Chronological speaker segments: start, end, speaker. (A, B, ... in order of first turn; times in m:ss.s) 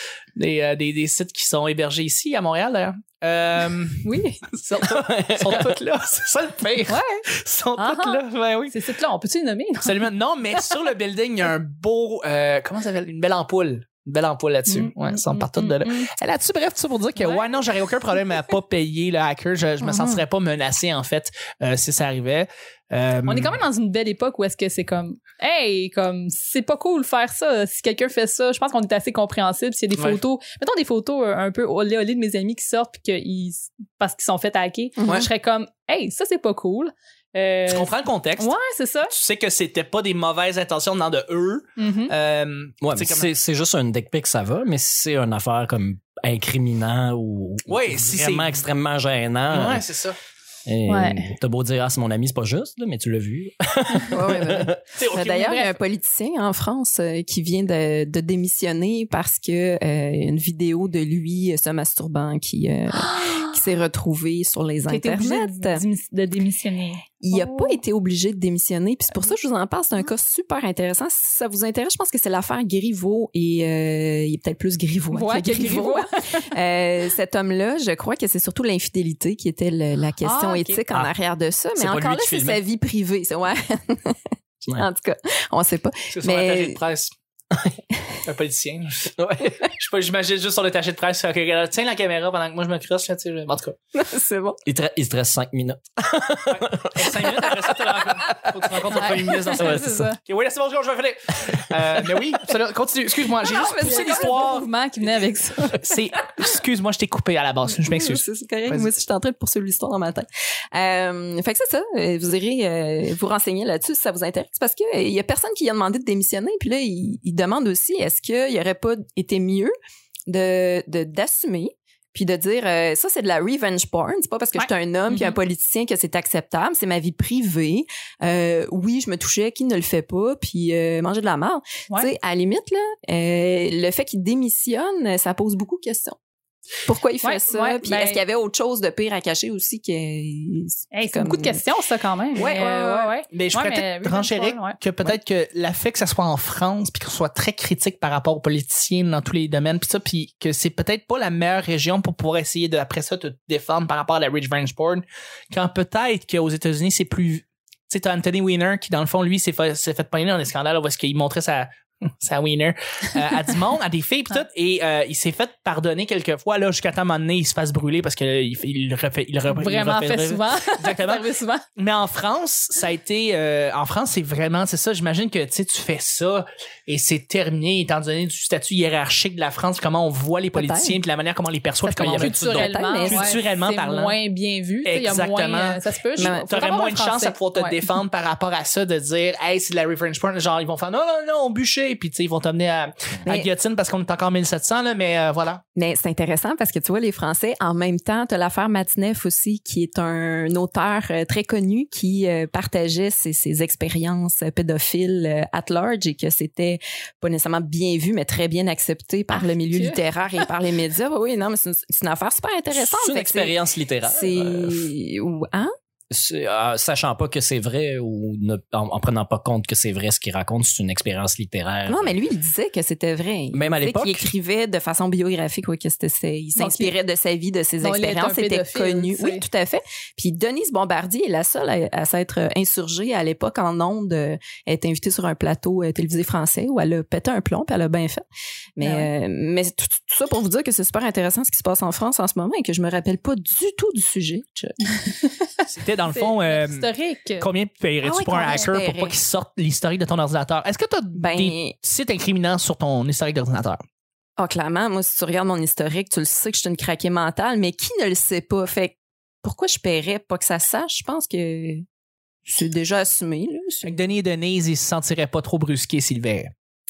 0:00.4-0:08.7 A
0:04.0-0:04.6 B
0:04.8-0:05.8 C
0:06.9-0:07.2 B
0:07.8-0:10.8 B
0:09.8-0:23.6 A
0:14.7-0:16.1 B
0:17.2-0:17.6 B
0:19.9-0:20.2 D
0:23.2-0:39.1 B
0:30.0-0:30.2 A
0:35.0-0:35.3 D
0:37.6-0:38.5 A
0:39.1-0:43.3 A
0:41.8-0:42.1 B
0:42.8-0:49.8 C
0:47.7-0:48.6 A
0:49.5-0:50.2 A
0:50.7-0:54.8 C
0:50.9-0:51.3 B
0:54.1-1:05.8 D
0:54.9-0:55.4 A
0:55.2-0:55.7 B
1:03.0-1:03.6 B
1:04.9-1:07.8 B
1:07.2-1:24.2 D
1:15.1-1:16.4 B
1:20.2-1:20.8 B
1:21.8-1:22.6 C
1:24.8-1:26.8 D
1:26.1-1:27.1 A
1:27.5-1:27.8 C
1:28.2-1:33.8 A
1:29.2-1:29.6 C
1:33.9-1:34.6 D
1:34.6-1:37.9 C
1:36.5-1:44.7 A
1:38.9-1:40.2 B
1:39.6-1:40.1 C
1:43.4-1:44.6 D
1:43.8-1:45.9 B
1:45.7-1:48.9 A
1:47.9-1:59.7 D
2:00.3-2:16.2 D
2:04.6-2:05.4 B
2:16.8-2:21.6 D
2:17.2-2:18.2 B
2:20.9-2:25.2 B
2:22.3-2:23.1 D
2:23.3-2:41.7 A
2:42.2-3:04.2 A
2:49.5-2:51.6 B
3:00.5-3:01.0 D
3:01.8-3:07.8 B
3:02.2-3:03.3 D
3:04.8-3:15.6 A
3:06.2-3:06.5 D
3:15.8-3:35.7 D
3:29.3-3:30.4 B
3:32.7-3:34.9 C
3:36.1-3:42.1 C
3:41.8-3:58.2 D
3:43.5-3:44.3 C
3:46.6-3:46.9 B
3:47.8-3:49.4 B
3:58.8-4:04.8 D
3:58.8-3:59.1 B
4:05.6-4:13.8 A
4:06.0-4:07.5 B
4:08.0-4:09.2 D
4:08.4-4:08.7 B
4:11.2-4:11.8 D
4:14.4-4:21.8 D
4:22.4-4:24.0 D
4:23.8-4:26.5 A